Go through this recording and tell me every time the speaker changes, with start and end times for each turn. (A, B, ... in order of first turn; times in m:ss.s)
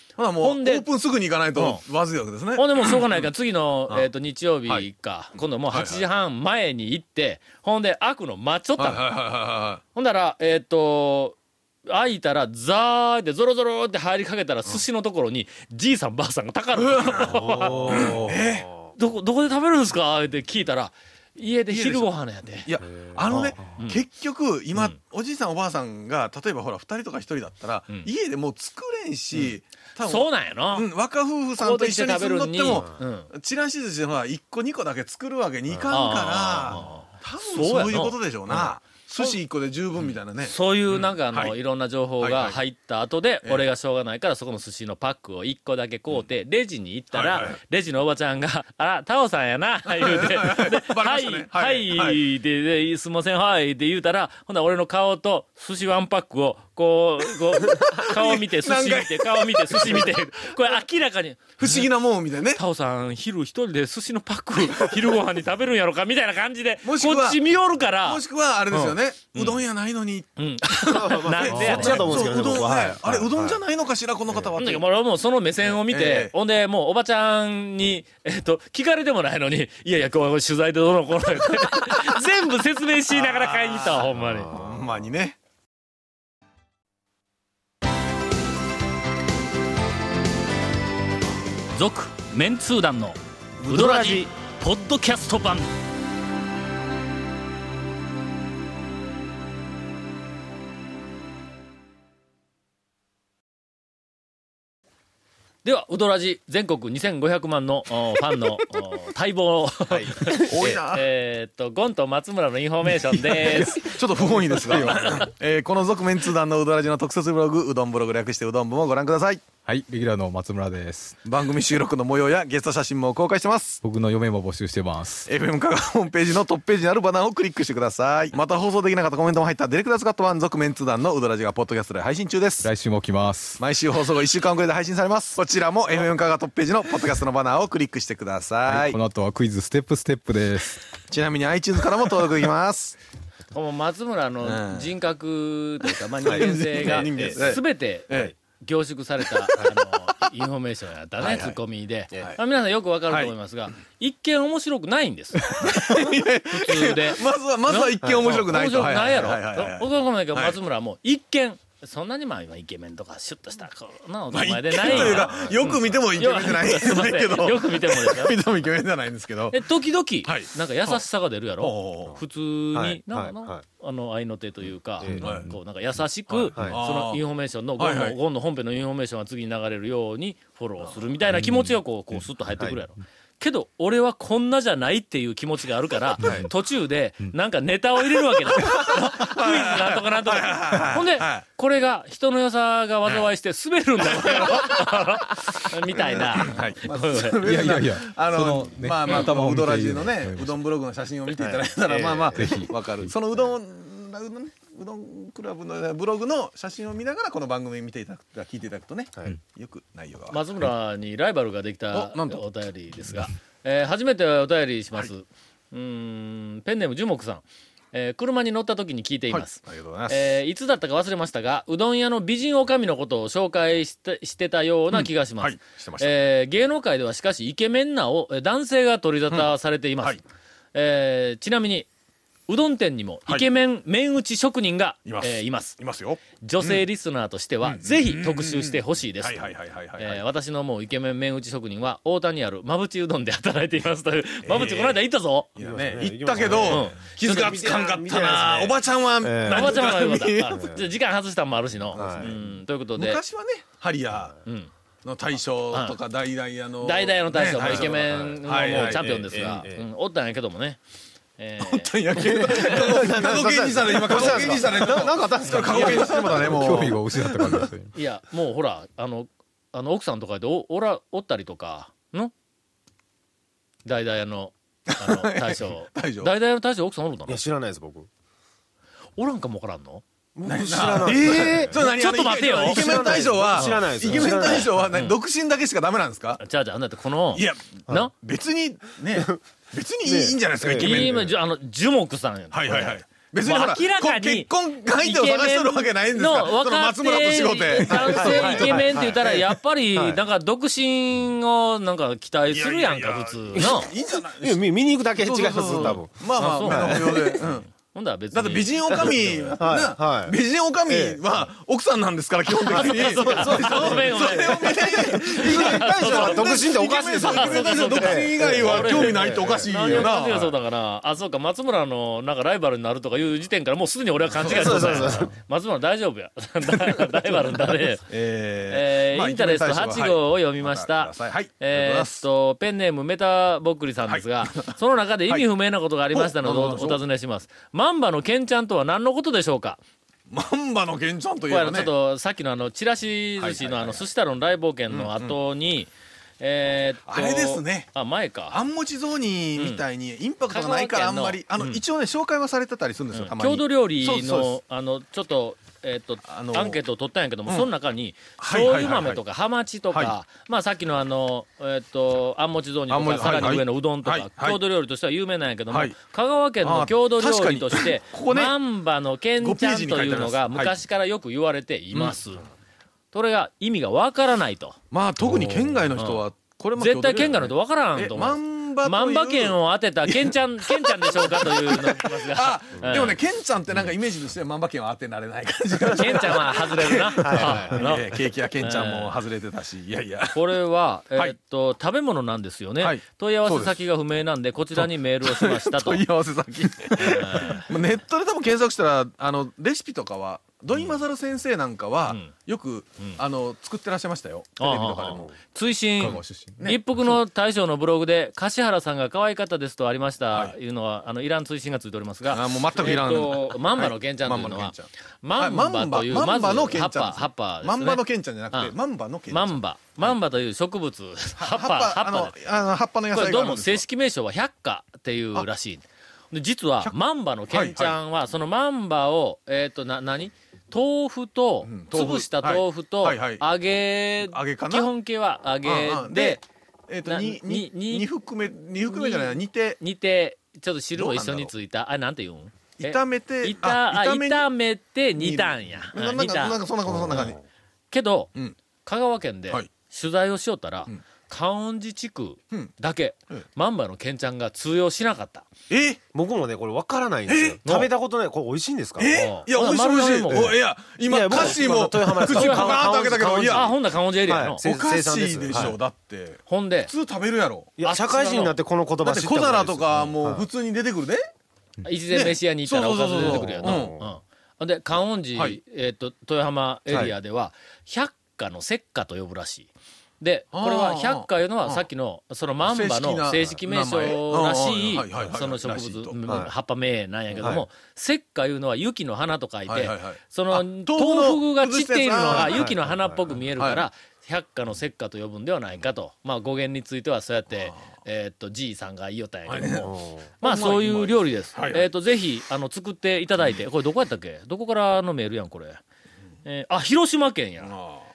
0:00.2-0:03.0 A
0:00.4-0:00.9 B
0:01.5-0:01.8 B
0:02.6-0:09.0 B
0:05.7-0:06.0 A
0:08.8-0:09.8 A
0:09.9-0:18.3 B
0:16.8-0:18.7 A
0:17.2-0:18.9 C
0:19.0-0:22.7 B
0:21.7-0:41.6 A
0:23.3-0:24.0 B
0:29.3-0:30.9 B
0:31.6-0:33.3 B
0:35.9-0:39.4 B
0:40.0-1:01.9 B
0:42.2-0:42.6 A
0:47.1-0:47.6 A
0:49.8-0:52.2 A
0:57.6-1:00.5 A
1:01.6-1:02.6 A
1:02.5-1:09.6 B
1:06.8-1:07.4 A
1:08.0-1:14.8 A
1:10.4-1:12.4 B
1:10.9-1:13.6 C
1:14.6-1:24.5 B
1:15.6-1:16.3 A
1:23.1-1:25.4 A
1:31.7-1:35.7 B
1:33.6-1:34.2 C
1:45.6-1:54.0 B
1:49.9-1:50.8 C
1:50.2-1:51.1 A
1:53.3-1:59.4 A
1:54.6-1:55.1 D
1:54.8-1:55.2 B
1:59.6-2:01.2 D
2:01.2-2:03.8 A
2:03.8-2:05.3 D
2:05.2-2:12.7 A
2:12.6-2:13.6 D
2:13.6-2:19.0 A
2:18.6-2:20.8 D
2:21.1-2:23.0 A
2:23.5-2:48.4 B
2:24.4-2:24.9 A
2:26.2-2:28.3 A
2:26.2-2:27.4 C
2:31.2-2:31.5 A
2:35.4-2:40.5 A
2:44.3-2:49.6 A
2:44.8-2:45.6 C
2:49.5-3:17.4 B
2:50.2-2:51.0 A
2:51.6-2:52.2 A
2:52.7-2:53.6 C
2:55.0-2:55.3 C
2:55.1-2:55.5 D
2:55.1-2:55.5 A
2:56.4-2:57.2 A
2:57.8-2:58.2 A
3:01.4-3:01.7 D
3:08.5-3:11.4 A
3:14.0-3:14.9 A
3:16.0-3:30.4 A
3:17.4-3:20.6 D
3:21.4-3:22.6 C
3:22.4-3:23.1 D
3:30.3-3:50.2 B
3:31.9-3:32.4 A
3:39.3-3:40.4 A
3:44.9-3:46.1 A
3:50.7-3:51.9 B
3:52.5-3:55.8 B
3:55.0-3:56.8 A
3:56.4-4:05.5 B
3:57.6-4:00.2 A
4:04.4-4:05.0 A
4:05.6-4:10.7 A
4:05.6-4:10.8 C
4:06.6-4:07.0 B
4:09.4-4:13.2 B
4:11.9-4:14.4 A
4:11.9-4:12.3 C
4:14.4-4:14.7 B
4:15.0-4:19.4 A
4:15.7-4:16.0 B
4:16.8-4:20.8 B
4:17.6-4:19.8 C
4:21.4-4:22.8 B
4:21.6-4:27.6 A
4:22.1-4:27.5 C
4:24.1-4:24.7 B
4:25.5-4:26.0 B
4:26.2-4:28.0 D
4:27.9-4:32.3 B
4:33.8-4:37.4 B
4:35.0-4:36.3 A
4:37.3-4:38.1 C
4:39.2-4:40.0 B
4:40.4-4:41.8 C
4:40.4-4:46.4 A
4:41.3-4:44.3 B
4:42.6-4:44.7 C
4:46.4-4:48.1 B
4:47.3-4:47.6 A
4:48.1-4:51.3 A
4:50.0-4:51.3 C
4:50.7-5:03.9 B
4:52.5-4:59.4 A
4:57.9-4:59.4 C
5:02.5-5:07.7 A
5:04.4-5:07.4 C
5:06.4-5:09.6 B
5:08.3-5:20.5 A
5:09.0-5:10.4 C
5:10.9-5:11.2 C
5:12.6-5:28.0 B
5:12.7-5:20.0 C
5:24.4-5:25.2 A
5:24.5-5:25.3 C
5:26.7-5:32.2 A
5:28.7-5:39.8 B
5:34.1-5:34.8 A
5:36.1-5:37.0 A
5:40.3-5:41.9 A
5:41.5-5:45.9 B
5:43.4-5:44.0 A
5:44.9-5:45.4 A
5:46.4-5:48.6 B
5:47.1-5:47.9 A
5:48.5-5:54.6 A
5:49.6-5:49.8 B
5:50.5-5:51.8 B
5:53.1-6:12.4 B
5:56.3-5:56.8 A
5:58.4-5:59.2 A
6:02.9-6:04.6 A
6:05.7-6:06.0 A
6:06.6-6:08.5 A
6:09.4-6:10.8 A
6:11.9-6:12.2 A
6:13.1-6:14.8 B
6:14.9-6:30.4 A
6:16.0-6:16.2 B
6:16.8-6:23.2 B
6:25.9-6:29.2 B
6:27.2-6:27.9 C
6:30.3-6:36.0 B
6:32.8-6:33.7 A
6:34.8-6:45.3 A
6:36.9-6:37.7 B
6:40.7-6:41.0 B
6:44.6-6:58.7 B
6:46.0-6:47.2 A
6:52.3-7:00.1 A
6:59.3-7:02.3 B
7:01.4-7:03.8 A
7:03.1-7:16.4 B
7:07.5-7:07.9 A
7:11.6-7:13.4 A
7:14.2-7:14.9 A
7:15.6-7:19.8 A
7:17.0-7:18.1 B
7:18.8-7:26.6 B
7:21.0-7:21.5 A
7:22.8-7:24.5 A
7:25.2-7:27.4 A
7:26.9-7:27.3 C
7:27.9-7:28.3 B
7:28.8-7:35.5 B
7:35.7-7:36.0 A
7:36.1-7:39.2 C
7:37.3-7:37.6 A
7:37.6-7:37.9 B
7:39.0-7:43.7 A
7:39.1-7:40.6 B
7:40.3-7:45.7 C
7:42.2-7:42.9 B
7:43.4-7:44.6 B
7:44.6-7:51.2 A
7:46.5-7:46.9 B
7:47.8-7:50.5 C
7:47.8-7:48.5 B
7:51.8-8:25.8 B
7:52.1-7:53.9 A
7:53.3-7:54.0 C
8:00.5-8:01.8 A
8:02.6-8:06.2 A
8:06.2-8:06.5 C
8:09.7-8:12.8 A
8:12.3-8:12.8 C
8:13.3-8:13.8 A
8:19.5-8:19.9 A
8:19.8-8:20.3 C
8:20.4-8:21.9 A
8:26.4-8:27.7 B
8:27.6-8:28.0 A